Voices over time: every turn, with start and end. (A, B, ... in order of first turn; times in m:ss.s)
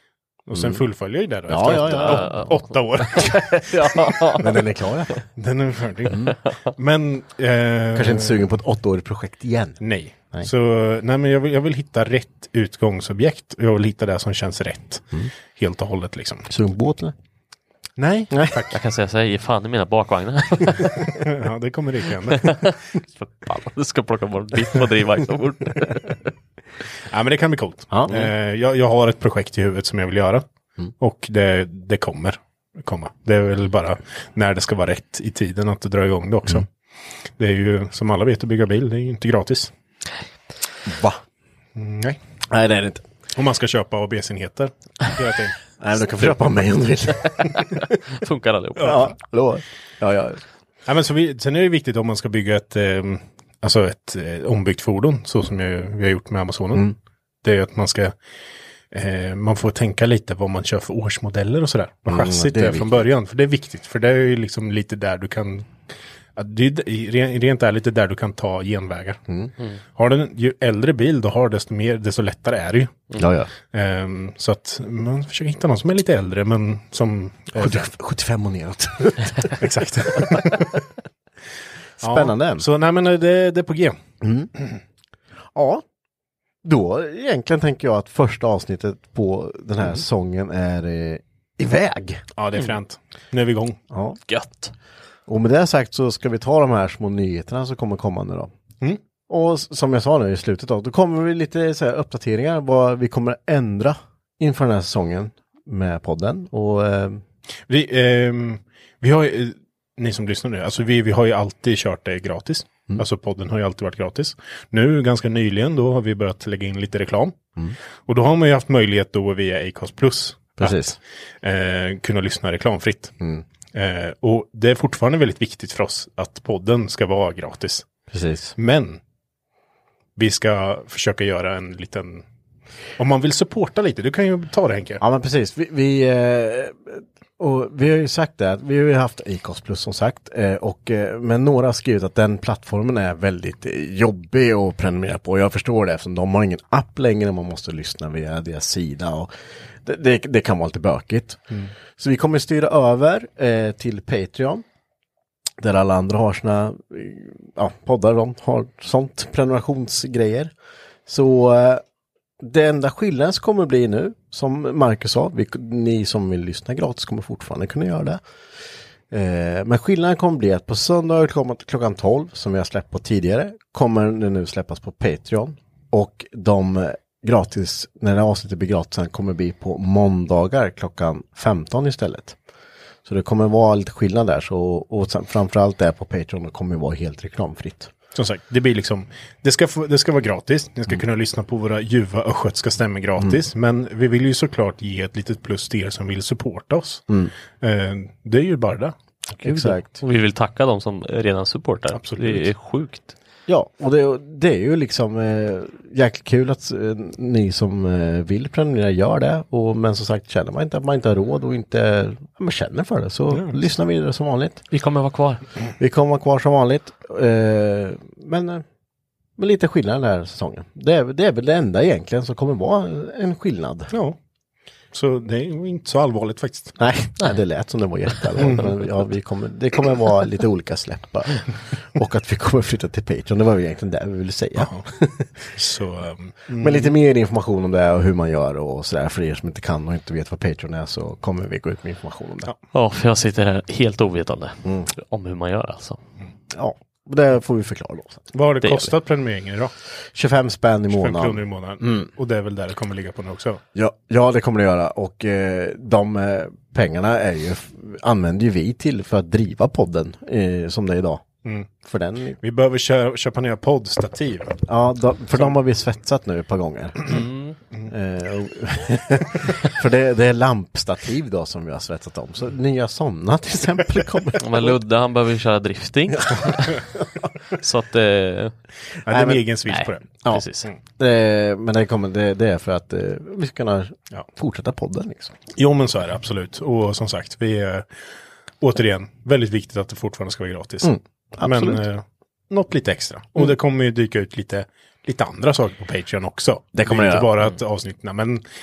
0:00.4-0:03.7 A
0:00.5-0:00.8 B
0:01.5-0:02.3 B
0:01.7-0:05.2 C
0:04.4-0:05.2 B
0:05.4-0:08.4 A
0:06.2-0:06.5 C
0:07.9-0:09.8 B
0:09.8-0:16.5 A
0:16.5-0:17.1 B
0:18.0-0:18.8 A
0:18.3-0:18.6 B
0:18.7-0:21.2 C
0:20.9-0:22.6 A
0:22.4-0:26.3 C
0:27.1-0:30.4 A
0:31.0-0:36.7 A
0:37.4-0:39.7 A
0:40.8-0:41.2 B
0:41.7-0:42.2 A
0:42.5-0:43.0 B
0:43.3-0:45.6 A
0:45.8-0:47.3 B
0:47.2-0:49.1 C
0:48.8-0:50.4 B
0:50.8-0:56.9 A
0:57.4-0:58.1 A
0:58.9-1:05.8 A
1:02.0-1:03.0 B
1:06.4-1:09.2 A
1:10.0-1:13.1 A
1:13.2-1:13.5 B
1:13.6-1:17.8 A
1:17.5-1:19.5 B
1:19.6-1:20.8 A
1:22.0-1:22.6 B
1:22.0-1:24.0 A
1:24.2-1:24.5 B
1:25.5-1:25.8 B
1:26.6-1:32.2 B
1:32.4-1:33.8 A
1:33.9-1:34.2 B
1:34.3-1:34.7 C
1:35.3-1:38.5 B
1:39.3-1:47.2 B
1:47.7-1:57.4 A
1:58.0-2:00.8 A
2:00.6-2:01.0 B
2:01.4-2:03.2 A
2:03.7-2:07.8 A
2:08.1-2:08.5 B
2:08.6-2:09.0 A
2:10.2-2:12.2 A
2:13.0-2:15.0 A
2:15.0-2:29.3 B
2:29.8-2:34.6 B
2:35.6-2:40.5 B
2:41.1-2:41.8 B
2:42.4-2:48.2 B
2:49.1-3:02.4 B
3:03.0-3:07.9 B
3:08.1-3:17.0 A
3:17.6-3:18.9 A
3:19.4-3:23.1 C
3:19.4-3:19.9 B
3:21.9-3:22.5 A
3:23.5-3:34.6 B
3:33.3-3:33.6 A
3:34.7-3:35.4 C
3:35.8-3:38.6 B
3:39.4-3:43.9 B
3:43.9-3:44.2 A
3:44.9-3:46.8 A
3:46.8-3:55.3 B
3:54.6-3:54.8 A
3:55.5-3:56.9 A
3:56.5-4:02.5 B
4:02.7-4:06.0 C
4:06.5-4:08.3 B
4:08.3-4:09.7 A
4:08.6-4:08.9 C
4:10.1-4:12.1 B
4:10.9-4:13.6 A
4:13.7-4:22.4 B
4:21.4-4:21.7 A
4:22.4-4:24.6 A
4:24.7-4:27.2 B
4:27.1-4:27.6 C
4:27.9-4:34.8 B
4:34.4-4:36.9 C
4:37.5-4:38.5 C
4:39.0-4:40.0 A
4:39.1-4:39.4 B
4:39.7-4:40.7 C
4:41.0-4:45.4 B
4:45.5-4:47.9 A
4:48.6-4:58.4 A
4:50.8-4:51.8 B
4:56.7-4:57.3 B